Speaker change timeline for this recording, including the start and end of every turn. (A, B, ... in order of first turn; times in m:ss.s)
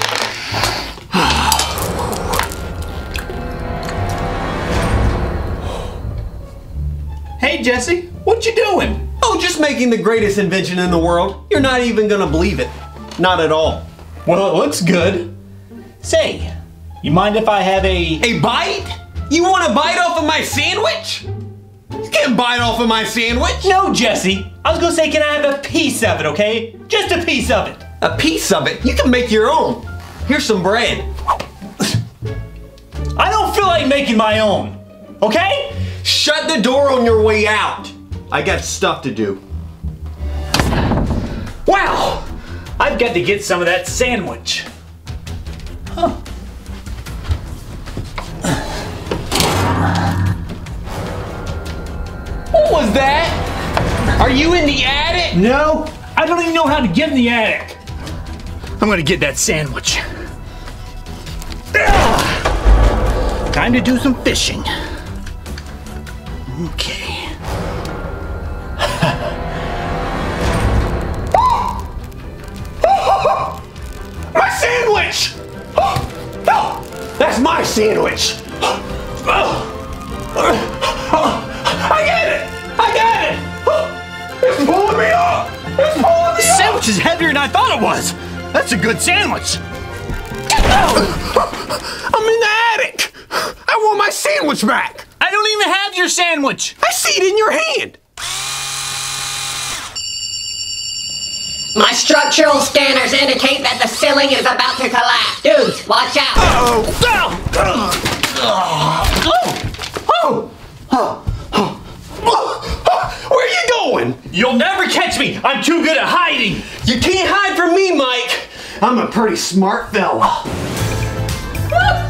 0:01.1-0:01.4 A
0:07.4-0:09.0 B
0:09.2-0:13.8 A
0:14.2-0:15.3 B
0:16.0-0:18.2 B
0:18.2-0:21.2 A
0:22.0-0:23.7 A
0:23.6-0:27.8 B
0:28.0-0:31.1 A
0:33.1-0:35.8 B
0:36.0-0:39.4 A
0:41.6-0:42.3 B
0:42.8-0:44.7 B
0:52.5-0:53.4 A
0:54.2-0:55.4 A
0:55.3-0:57.8 B
0:58.8-1:00.0 B
1:01.7-1:02.4 B
1:03.5-1:04.7 B
1:06.5-1:07.3 B
1:12.8-1:13.5 A
1:14.3-1:18.4 A
1:19.2-1:19.6 A
1:20.4-1:23.9 A
1:24.4-1:26.8 A
1:26.3-1:29.6 B
1:30.7-1:35.1 A
1:35.2-1:36.7 B
1:36.8-1:38.0 A
1:41.7-1:46.5 C
1:46.4-1:49.6 B
1:50.1-1:50.4 A
1:52.2-1:54.2 A
1:54.3-1:56.7 B
1:56.7-2:00.4 A